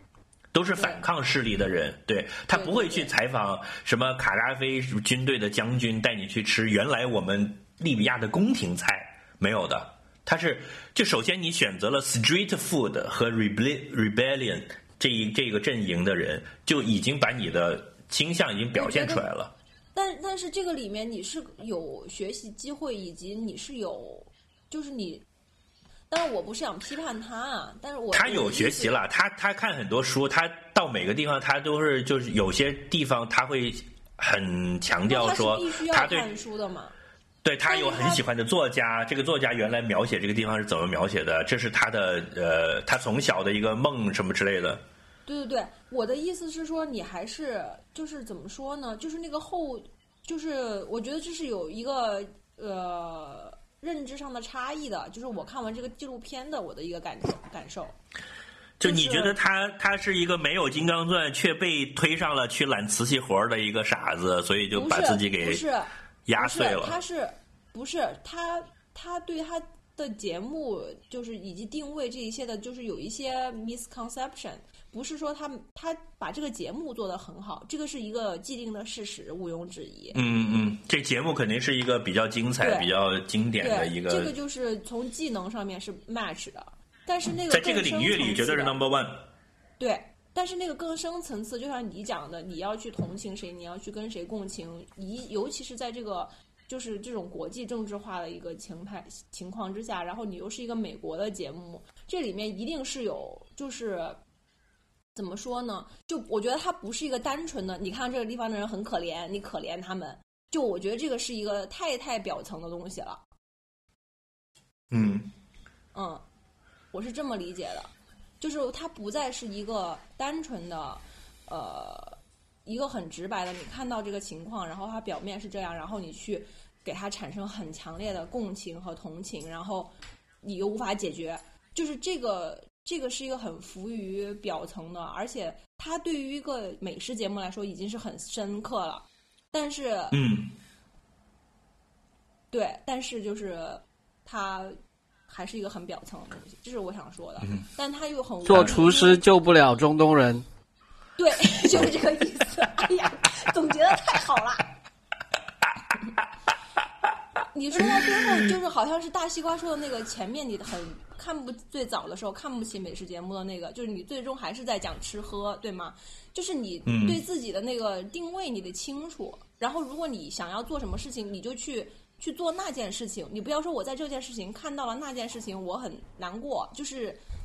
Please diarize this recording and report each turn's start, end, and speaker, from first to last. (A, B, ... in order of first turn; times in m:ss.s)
0:00.5-0:19.5 A
0:00.8-0:01.0 B
0:02.5-0:03.1 B
0:18.8-0:19.3 B
0:20.0-0:25.2 B
0:26.1-0:29.0 B
0:28.1-0:36.3 A
0:35.1-0:36.9 B
0:37.4-0:44.8 A
0:37.7-0:38.2 B
0:45.3-0:58.0 B
0:58.8-1:05.6 A
0:58.8-0:59.4 B
1:04.7-1:20.2 B
1:06.3-1:07.0 A
1:20.1-1:24.3 A
1:22.6-1:22.9 B
1:23.6-1:28.8 B
1:27.5-1:29.3 A
1:29.8-1:44.2 B
1:45.2-1:53.2 B
1:54.9-1:55.3 A
1:55.9-1:56.2 B
1:56.9-2:20.2 B
2:20.1-2:20.5 A
2:22.5-2:29.2 B
2:28.4-2:30.5 C
2:31.2-2:34.7 B
2:37.5-2:57.2 B
2:46.9-2:47.2 A